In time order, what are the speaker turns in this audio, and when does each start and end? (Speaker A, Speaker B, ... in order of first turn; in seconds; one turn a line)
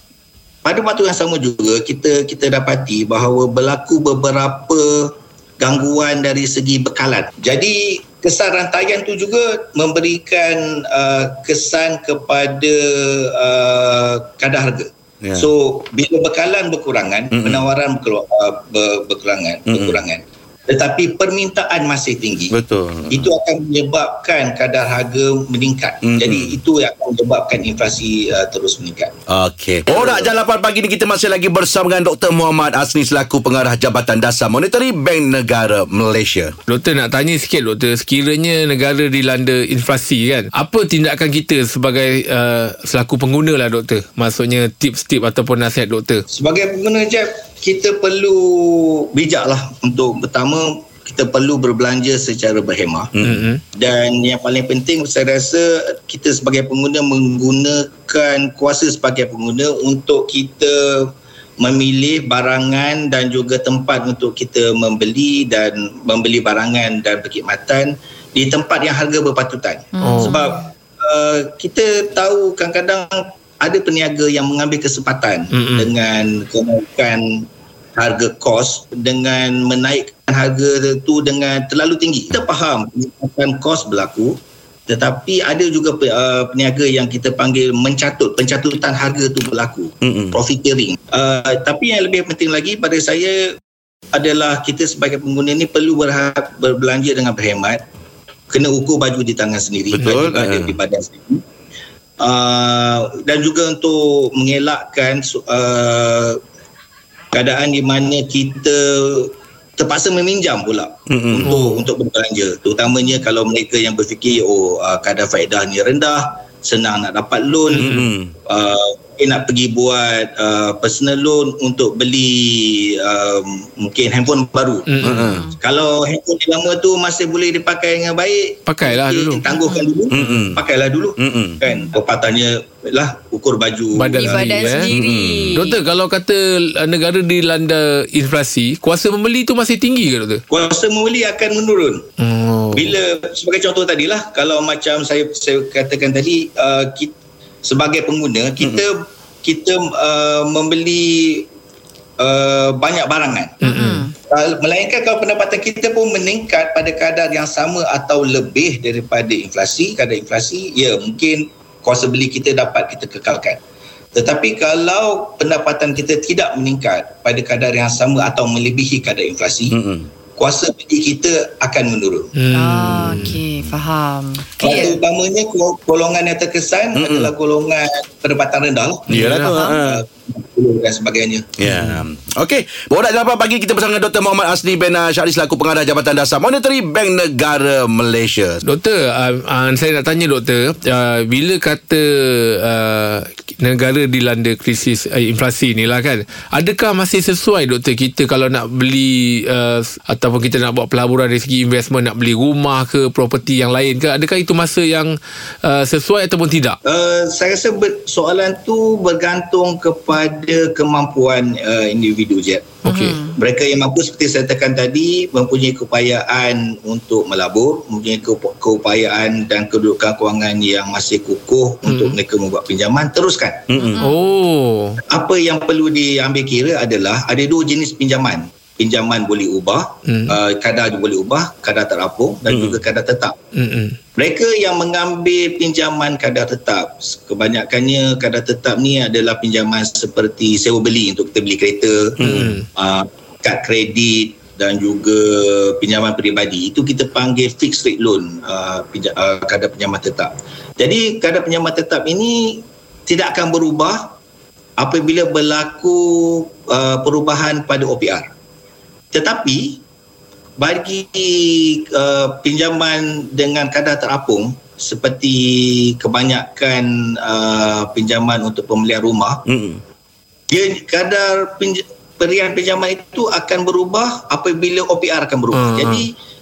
Speaker A: 0.6-22.5
Speaker B: 15.2-15.5
Speaker B: 17.3-17.7
Speaker B: 19.7-20.0
Speaker B: 22.5-23.3
Speaker A: 23.1-29.2
Speaker B: 26.0-26.6
Speaker B: 29.3-36.5
Speaker A: 29.9-30.3
Speaker C: 36.7-46.2
Speaker A: 46.3-53.1
Speaker B: 53.1-53.5
Speaker C: 53.2-53.6
Speaker A: 53.7-93.6
Speaker D: 70.0-70.6
Speaker C: 70.0-70.4
Speaker C: 75.5-75.9
Speaker B: 90.0-90.4
Speaker A: 94.1-97.8
Speaker A: 98.5-101.4
Speaker B: 100.0-100.8
Speaker A: 102.2-106.4
Speaker A: 107.3-134.8
Speaker B: 111.1-111.6
Speaker C: 111.4-111.8
Speaker C: 117.7-118.1
Speaker B: 117.7-118.3
Speaker C: 124.9-125.3
Speaker D: 125.0-125.6
Speaker B: 125.0-125.5
Speaker C: 128.7-129.4
Speaker D: 129.5-130.0
Speaker B: 130.1-130.6
Speaker C: 130.1-130.4
Speaker B: 131.2-131.6
Speaker C: 133.9-134.9
Speaker D: 134.2-135.8
Speaker B: 134.9-135.6
Speaker C: 135.5-140.4
Speaker A: 140.5-142.0
Speaker C: 142.2-142.9
Speaker A: 142.7-151.5
Speaker A: 152.2-153.6
Speaker D: 153.6-154.1
Speaker C: 153.6-154.0
Speaker A: 154.3-163.6
Speaker A: 164.1-169.8
Speaker B: 169.7-170.1
Speaker A: 170.4-172.3
Speaker C: 172.3-173.4
Speaker D: 172.5-175.0
Speaker A: 174.6-181.5
Speaker B: 176.9-177.3
Speaker B: 179.1-180.0
Speaker C: 179.1-179.6
Speaker B: 181.6-188.6
Speaker C: 181.6-182.0
Speaker C: 188.6-206.8
Speaker A: 206.8-223.7
Speaker C: 212.8-213.2
Speaker D: 212.8-213.3
Speaker C: 221.8-222.2
Speaker B: 223.7-224.1
Speaker D: 223.8-224.2
Speaker C: 224.0-225.0
Speaker A: 225.1-233.4
Speaker C: 230.1-230.4
Speaker B: 232.5-232.8
Speaker C: 233.5-234.0
Speaker A: 234.2-254.1
Speaker B: 242.2-242.6
Speaker C: 242.2-242.7
Speaker A: 254.8-258.3
Speaker A: 259.1-259.8
Speaker A: 260.6-269.4
Speaker B: 269.5-269.8
Speaker A: 270.5-276.1
Speaker C: 275.5-276.1